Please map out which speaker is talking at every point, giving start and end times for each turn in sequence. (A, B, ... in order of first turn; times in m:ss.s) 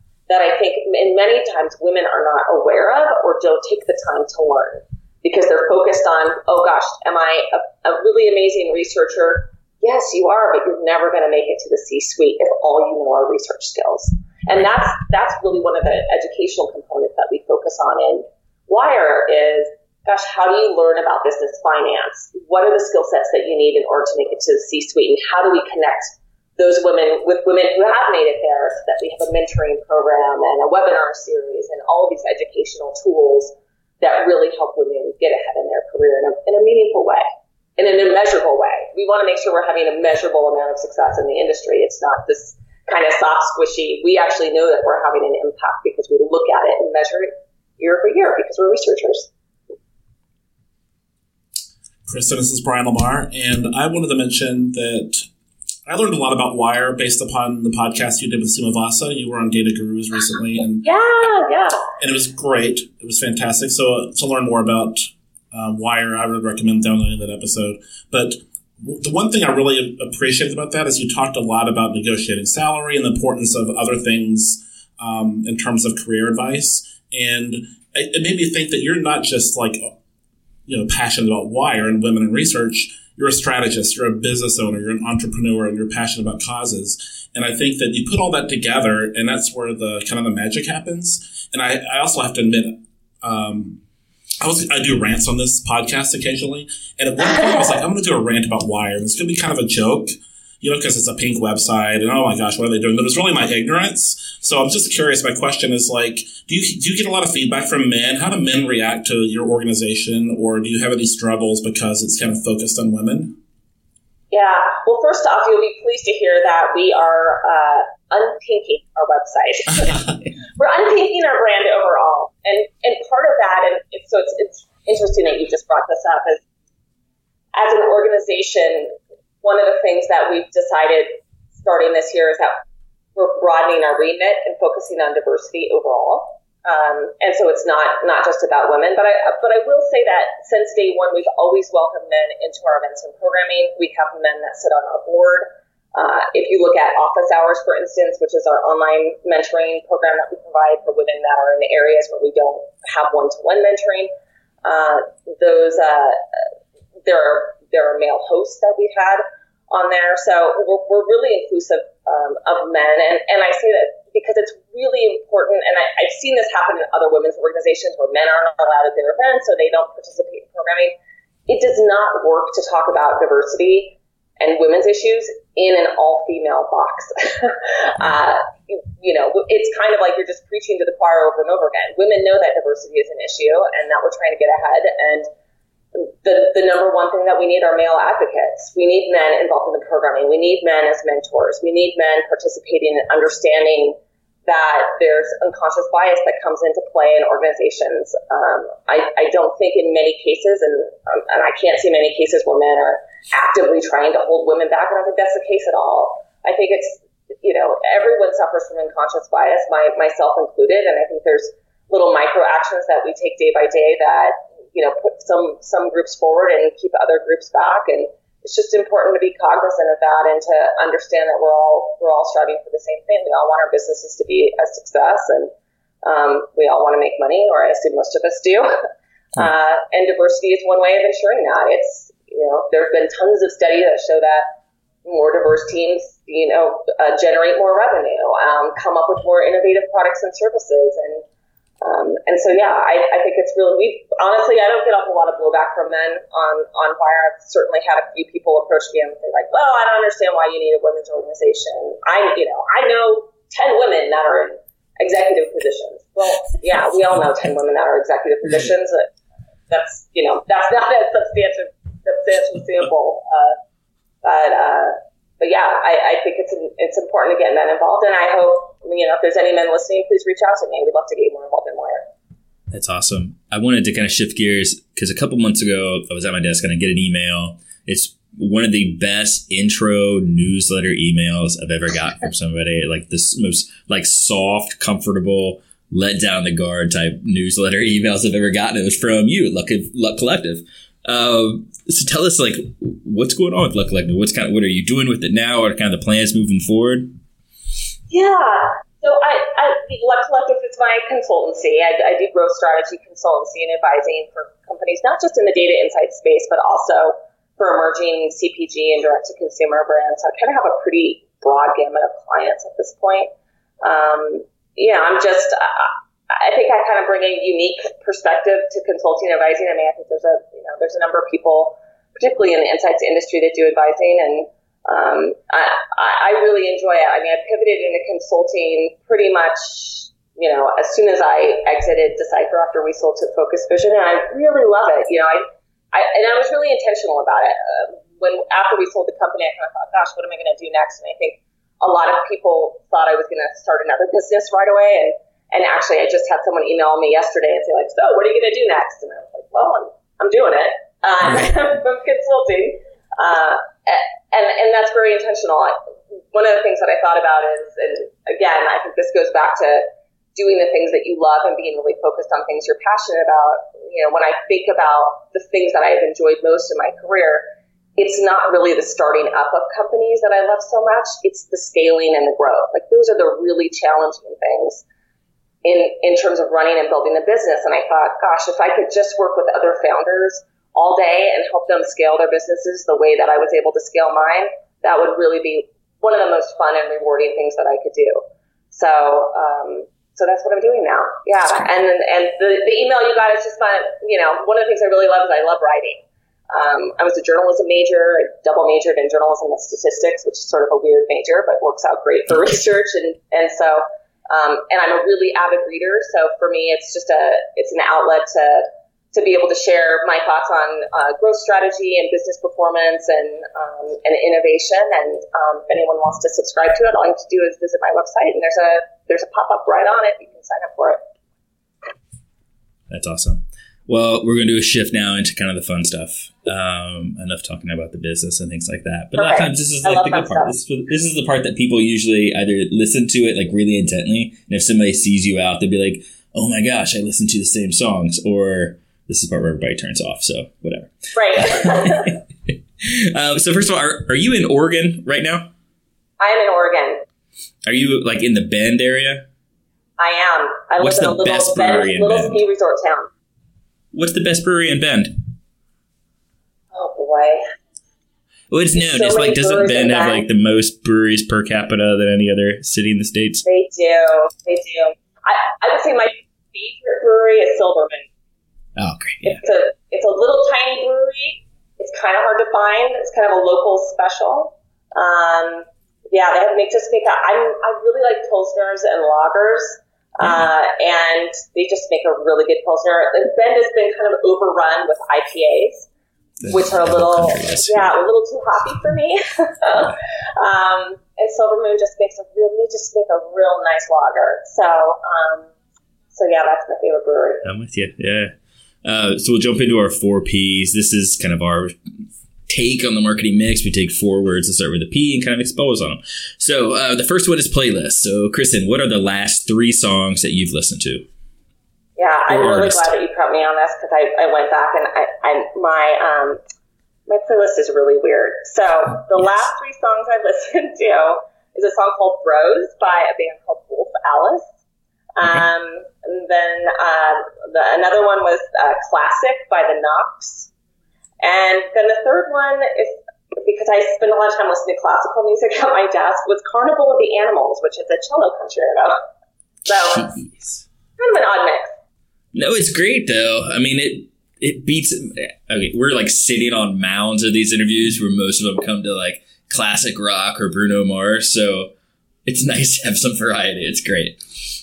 0:00.3-0:37.2 A
0:37.8-0:49.3 A
0:52.1-0:55.2 B
0:55.9-1:00.8 B
1:00.8-1:01.8 A
1:02.0-1:19.9 B
1:20.7-1:33.8 B
1:34.4-1:53.4 B
1:54.3-2:06.4 A
2:07.5-2:12.6 A
2:13.2-2:34.1 A
2:34.6-2:36.2 A
2:37.1-2:51.0 A
2:51.5-3:05.3 A
3:05.9-3:45.5 A
3:46.0-3:48.7 A
3:49.4-3:54.5 A
3:55.0-4:01.2 A
4:01.8-4:19.1 A
4:19.7-4:23.6 A
4:24.2-4:32.1 A
4:32.7-4:57.1 C
4:58.1-5:55.8 A
5:56.3-6:07.4 A
6:08.0-6:14.8 A
6:15.6-7:01.0 A
7:02.9-7:25.5 C
7:09.2-7:10.5 A
7:21.1-7:22.2 A
7:26.2-7:27.0 A
7:27.7-7:29.3 C
7:30.0-7:33.1 A
7:30.8-7:32.4 C
7:33.9-7:35.2 C
7:36.7-7:37.4 A
7:38.5-7:43.4 C
7:38.8-7:40.2 A
7:43.4-7:48.1 A
7:48.8-7:49.4 C
7:49.2-8:05.9 A
8:06.4-8:07.9 C
8:06.5-8:15.5 A
8:16.1-8:17.4 A
8:17.4-8:21.7 C
8:22.5-8:31.1 C
8:32.0-8:36.4 A
8:32.3-8:32.9 C
8:37.1-8:44.5 A
8:45.2-8:50.5 A
8:51.2-8:59.0 A
8:59.7-9:00.1 A
8:59.7-9:00.6 C
9:01.0-9:01.7 A
9:02.3-9:11.7 C
9:12.3-9:14.5 C